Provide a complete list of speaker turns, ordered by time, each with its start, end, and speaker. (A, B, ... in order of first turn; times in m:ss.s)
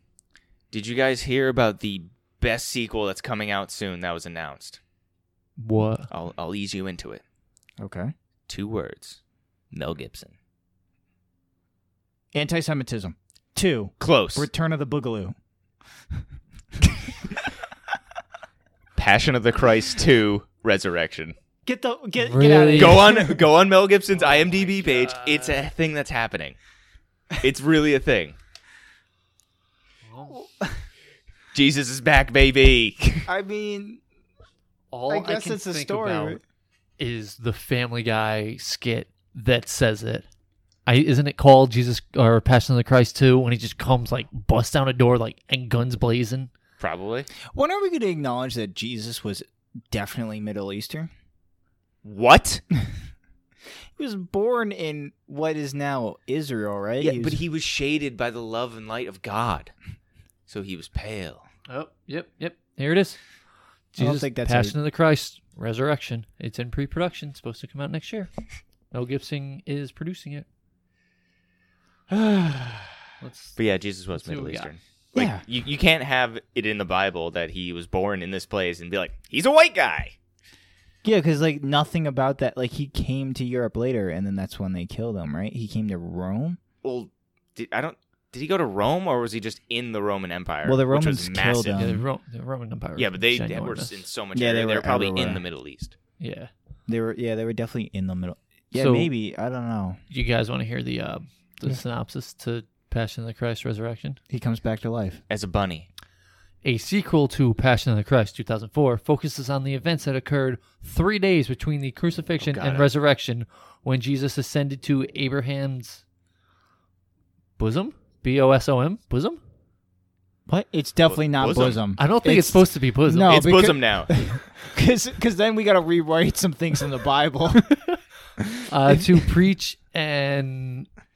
0:00.7-0:04.8 A
0:05.6-0:06.1 B
0:06.1-0:07.2 A
0:07.8-0:08.1 C
0:08.5-0:09.2 A
0:09.7-0:10.3 A
0:12.3-0:15.3 C
0:14.0-0:14.5 A
0:16.8-0:17.1 C
0:19.0-0:21.4 A
0:21.6-0:23.4 C
0:22.2-0:23.1 B
0:22.8-0:26.6 A
0:24.1-0:25.7 B
0:27.4-0:28.4 A
0:30.0-0:30.4 B
0:30.3-0:30.7 C
0:31.5-0:33.3 A
0:33.2-0:34.0 C
0:34.9-0:36.4 B
0:35.1-0:36.4 C
0:37.0-0:40.2 B
0:40.8-0:46.5 B
0:46.8-0:47.3 A
0:47.5-0:51.1 C
0:52.0-0:52.6 A
0:54.0-0:57.4 C
0:57.0-0:59.7 A
1:00.5-1:01.4 A
1:01.7-1:03.2 B
1:03.9-1:08.3 B
1:04.0-1:04.8 C
1:08.9-1:10.4 B
1:12.1-1:13.0 A
1:13.2-1:13.6 B
1:13.6-1:20.1 A
1:14.1-1:14.7 B
1:15.1-1:15.4 C
1:21.0-1:26.6 C
1:26.8-1:31.8 A
1:30.6-1:32.0 C
1:31.7-1:34.0 B
1:33.0-1:36.0 A
1:34.3-1:35.4 C
1:36.2-1:36.5 B
1:36.9-1:40.0 C
1:38.7-1:39.1 B
1:40.1-1:44.2 B
1:44.3-1:45.2 C
1:45.3-1:45.9 A
1:46.6-1:56.0 B
1:52.4-1:52.9 A
1:57.6-1:59.4 B
2:00.5-2:07.8 C
2:01.1-2:01.8 A
2:02.0-2:03.4 B
2:03.2-2:04.1 A
2:08.4-2:09.2 C
2:08.7-2:10.9 B